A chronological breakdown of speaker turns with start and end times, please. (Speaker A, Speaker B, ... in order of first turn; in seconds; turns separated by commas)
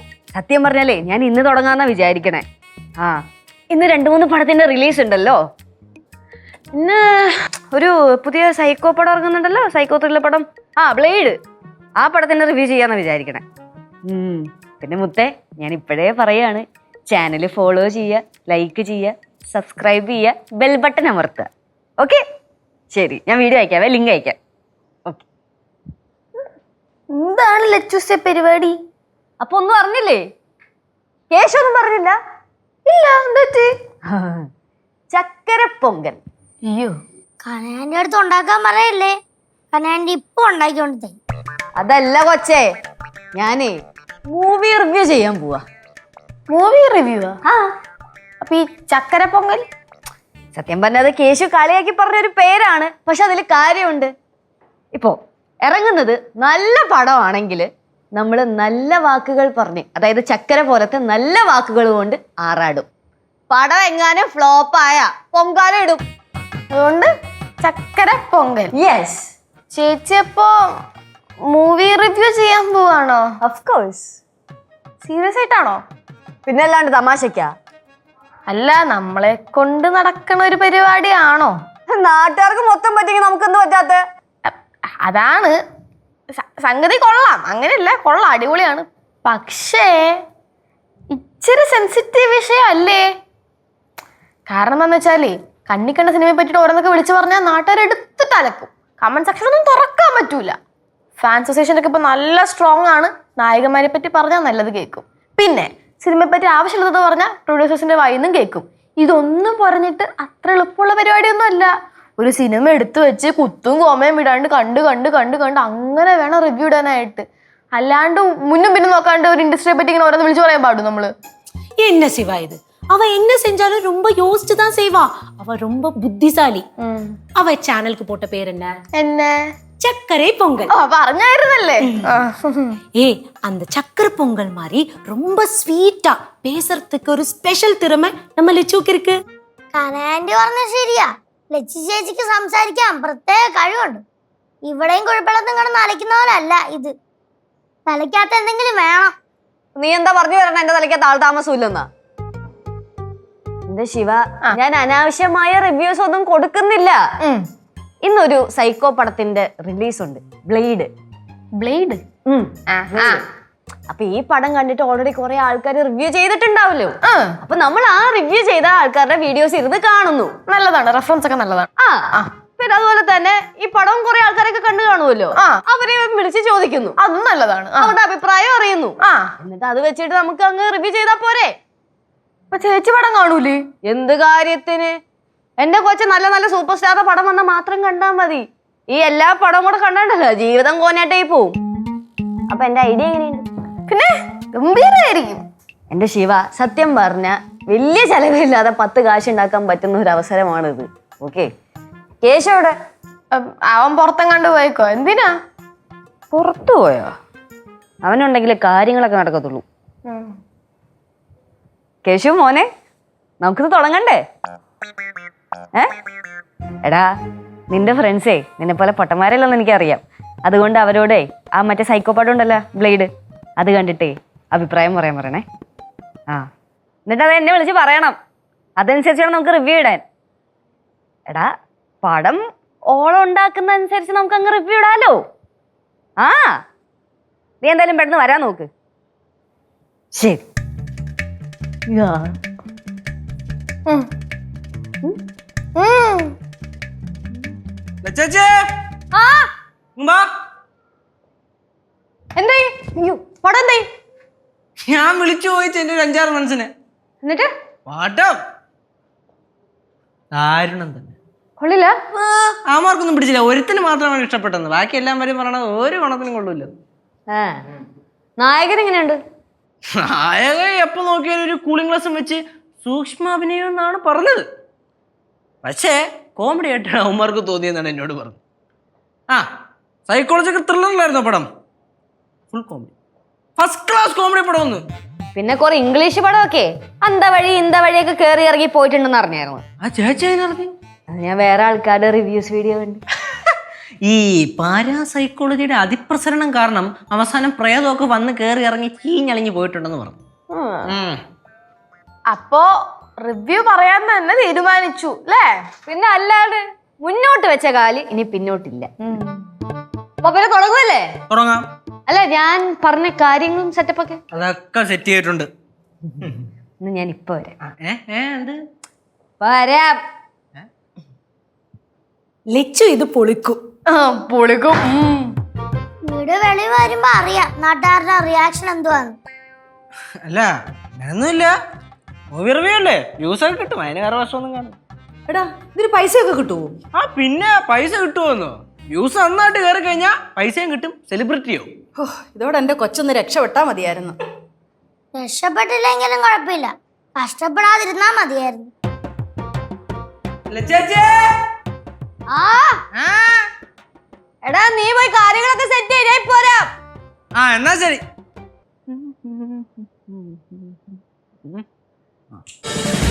Speaker A: 0.3-2.4, Speaker A: 3.0-5.4, Speaker A: 6.7-11.4, Speaker A: 12.0-13.4, Speaker A: 14.1-21.5, Speaker A: 22.9-24.4, Speaker B: 27.1-28.7, Speaker A: 29.4-30.2, Speaker A: 31.3-32.1, Speaker B: 32.9-33.7, Speaker A: 34.1-34.5, Speaker A: 35.1-36.2, Speaker B: 36.6-37.0, Speaker C: 37.4-39.1, Speaker C: 39.7-41.2, Speaker A: 41.8-42.6, Speaker A: 43.3-43.7, Speaker A: 44.3-45.6, Speaker B: 46.5-47.4, Speaker A: 47.5-47.7, Speaker B: 48.4-49.6, Speaker A: 50.5-54.1, Speaker A: 54.9-62.9, Speaker A: 63.5-66.0, Speaker B: 66.7-67.1, Speaker B: 67.6-68.7, Speaker A: 68.7-69.3, Speaker B: 69.7-70.5, Speaker B: 71.5-73.2, Speaker A: 73.4-74.2, Speaker B: 75.0-75.8, Speaker A: 76.5-77.5, Speaker B: 78.5-81.5, Speaker A: 81.9-84.0, Speaker B: 85.0-85.5, Speaker B: 86.3-90.1, Speaker B: 91.1-93.0, Speaker B: 94.5-100.5, Speaker B: 101.2-117.2, Speaker B: 117.7-121.1, Speaker D: 121.8-126.7, Speaker B: 126.8-127.1, Speaker D: 127.3-128.8, Speaker B: 128.9-129.5, Speaker D: 129.8-130.7, Speaker B: 130.7-132.8, Speaker D: 132.9-139.1, Speaker C: 139.7-144.0, Speaker C: 144.6-146.9, Speaker C: 147.9-149.1, Speaker A: 149.8-151.9, Speaker A: 153.7-157.0, Speaker A: 158.0-160.9, Speaker B: 161.6-162.0, Speaker A: 162.2-163.2, Speaker B: 162.7-163.2, Speaker A: 163.9-170.3, Speaker B: 167.1-167.3, Speaker B: 170.5-172.3, Speaker A: 171.8-177.0, Speaker B: 177.0-177.9, Speaker A: 177.8-181.5, Speaker B: 182.5-183.6, Speaker A: 183.8-185.0, Speaker A: 185.6-191.6, Speaker A: 192.5-193.4, Speaker B: 193.9-195.4, Speaker A: 195.9-201.5, Speaker A: 202.2-202.7, Speaker B: 203.3-205.3, Speaker A: 206.3-207.1, Speaker A: 208.0-209.6, Speaker A: 212.0-212.7, Speaker A: 213.4-214.2, Speaker A: 217.7-225.4, Speaker A: 227.1-228.2, Speaker A: 228.8-230.0, Speaker A: 231.3-235.2, Speaker A: 236.2-236.6, Speaker A: 237.6-238.7, Speaker A: 240.1-240.4, Speaker A: 241.9-242.3, Speaker B: 245.8-246.3, Speaker E: 248.0-248.6, Speaker E: 250.0-250.3, Speaker D: 252.4-253.8, Speaker E: 254.9-256.7, Speaker E: 257.9-258.4, Speaker E: 260.3-261.1, Speaker A: 261.6-262.5, Speaker E: 262.7-266.7, Speaker A: 267.3-267.6, Speaker A: 268.4-269.2, Speaker E: 269.9-274.4, Speaker E: 275.6-278.4, Speaker E: 280.1-281.5, Speaker E: 282.5-282.9, Speaker E: 283.6-284.9, Speaker A: 285.3-289.6, Speaker E: 289.8-290.7, Speaker A: 291.1-293.0, Speaker E: 294.0-300.2, Speaker E: 300.9-301.2, Speaker B: 302.3-302.7, Speaker B: 303.2-305.5, Speaker A: 305.9-308.9, Speaker B: 309.0-309.3, Speaker A: 310.2-311.2, Speaker E: 311.3-311.7, Speaker A: 312.1-314.2, Speaker E: 314.3-315.5, Speaker A: 316.8-317.5, Speaker E: 317.8-318.6, Speaker A: 319.4-320.0, Speaker D: 322.5-323.6, Speaker B: 323.9-325.3, Speaker C: 326.0-329.2, Speaker E: 330.2-331.5, Speaker E: 332.3-334.8, Speaker F: 335.3-336.8, Speaker E: 336.9-341.7, Speaker F: 342.0-344.1, Speaker C: 345.1-348.7, Speaker E: 350.5-351.3, Speaker A: 352.3-352.8, Speaker E: 352.9-353.5, Speaker A: 354.4-356.7, Speaker E: 357.4-358.0, Speaker E: 358.9-360.7